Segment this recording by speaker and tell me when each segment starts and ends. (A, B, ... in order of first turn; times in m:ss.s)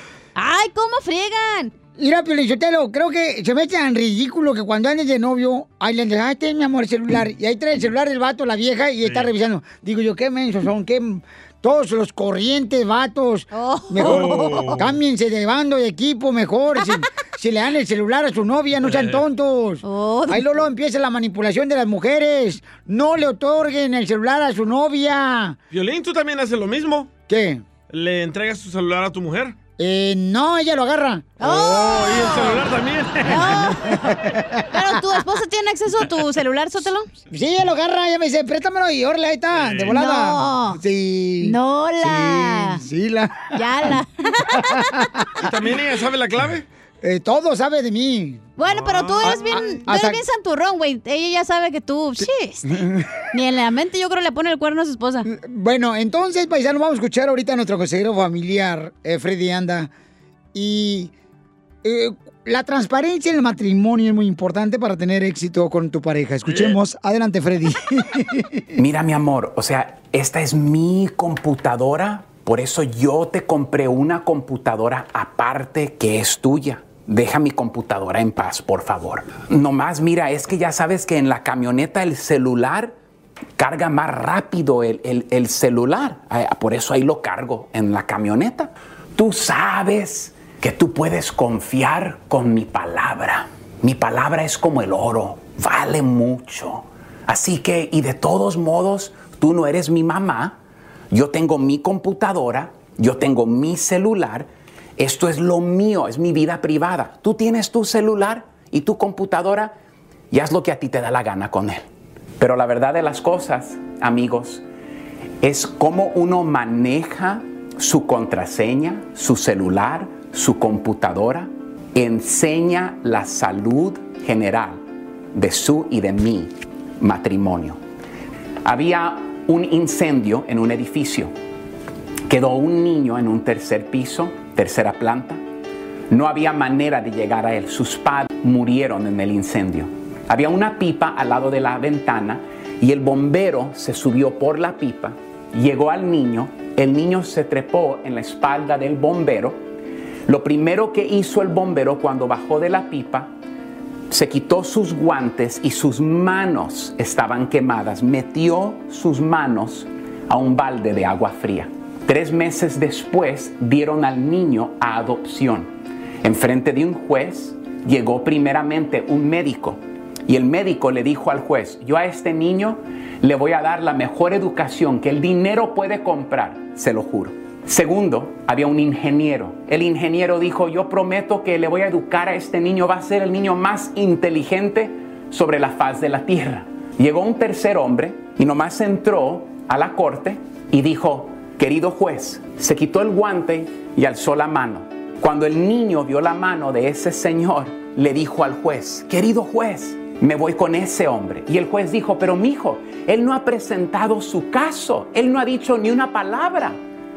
0:00.4-0:01.7 A
0:02.0-0:25.6 B
0:13.5-0:14.8 A
0:14.0-0:14.9 C
0:18.8-0:19.2 C
0:19.8-0:20.5 A
0:25.7-0:27.1 C
0:27.3-0:27.6 B
0:27.9-0:29.5 C
0:29.8-0:31.3 B
0:31.4-0:32.6 A
0:31.4-0:33.8 C
0:33.2-0:34.0 A
0:34.1-0:34.8 B
0:34.7-0:37.1 A
0:37.3-0:43.9 B
0:39.6-0:40.0 C
0:39.9-0:40.8 A
0:41.4-0:42.8 A
0:43.5-0:45.0 A
0:44.5-0:45.4 B
0:45.4-0:46.6 C
0:47.0-0:48.4 B
0:48.6-0:52.6 A
0:48.7-0:49.6 C
0:49.2-0:50.2 B
0:52.6-0:53.1 B
0:53.3-0:55.3 A
0:55.2-0:59.9 B
1:00.5-1:01.1 B
1:01.8-1:08.6 B
1:06.5-1:06.8 C
1:08.8-1:22.9 D
1:23.6-1:40.6 D
1:41.1-1:49.7 D
1:50.3-1:51.8 D
1:52.4-1:54.6 D
1:55.4-2:04.8 D
2:05.3-2:07.8 D
2:08.6-2:11.3 D
2:12.3-2:15.4 D
2:16.1-2:29.6 D
2:30.3-2:33.3 D
2:34.1-2:45.7 D
2:46.2-3:26.8 D